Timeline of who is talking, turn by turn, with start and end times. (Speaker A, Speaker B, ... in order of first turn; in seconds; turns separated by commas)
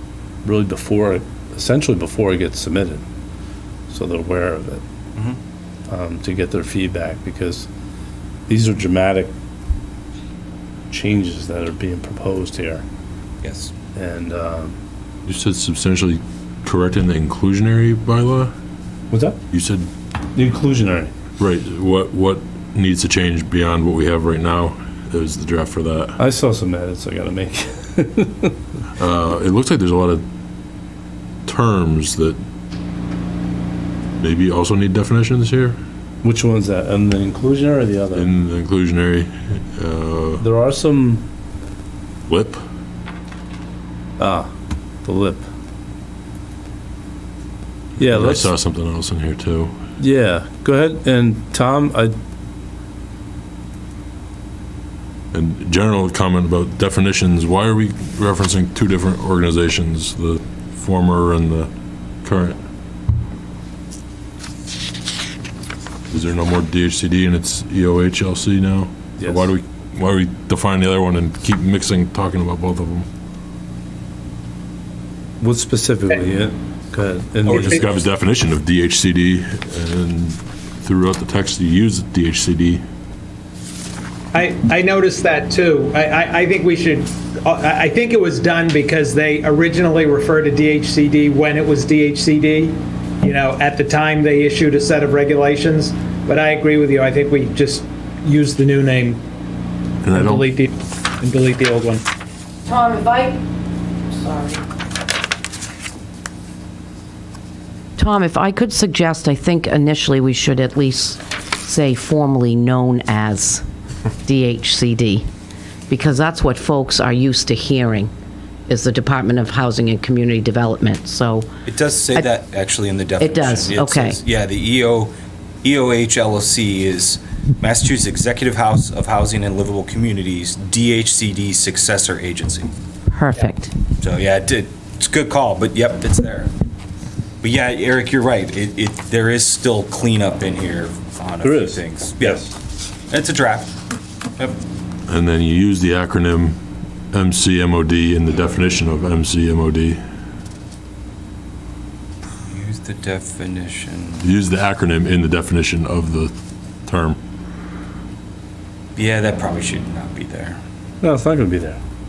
Speaker A: 0.4-3.0, Speaker A: 3.9-4.8, Speaker A: 5.9-7.7, Speaker A: 8.5-9.3, Speaker A: 10.9-12.8, Speaker B: 13.4-13.7, Speaker A: 13.9-14.8, Speaker C: 15.3-18.5, Speaker A: 19.1-19.4, Speaker C: 19.5-19.9, Speaker A: 20.3-21.1, Speaker C: 21.4-26.2, Speaker A: 26.2-28.6, Speaker C: 29.0-30.2, Speaker C: 31.5-32.4, Speaker C: 34.2-35.8, Speaker A: 36.2-38.3, Speaker C: 38.1-40.4, Speaker A: 40.4-41.3, Speaker C: 42.3-42.6, Speaker A: 44.2-44.5, Speaker A: 45.0-45.5, Speaker A: 48.0-48.5, Speaker C: 48.0-49.8, Speaker A: 50.0-52.1, Speaker C: 55.3-61.7, Speaker C: 62.2-62.6, Speaker C: 66.1-73.1, Speaker A: 69.2-69.5, Speaker A: 75.4-77.9, Speaker C: 77.5-82.8, Speaker D: 84.3-99.2, Speaker C: 100.0-100.5, Speaker D: 100.1-102.0, Speaker E: 102.7-103.4, Speaker E: 104.1-104.6, Speaker E: 108.0-113.6, Speaker E: 114.2-115.3, Speaker E: 115.9-118.1, Speaker E: 118.7-121.5, Speaker B: 121.7-132.7, Speaker E: 123.2-124.2, Speaker E: 133.1-133.7, Speaker B: 134.0-136.5, Speaker B: 137.4-142.5, Speaker A: 141.4-142.6, Speaker B: 143.1-143.7, Speaker C: 145.1-146.6, Speaker C: 147.1-150.0, Speaker B: 152.4-154.2, Speaker C: 154.2-156.3, Speaker C: 156.9-157.2, Speaker B: 159.0-160.6, Speaker A: 161.0-161.8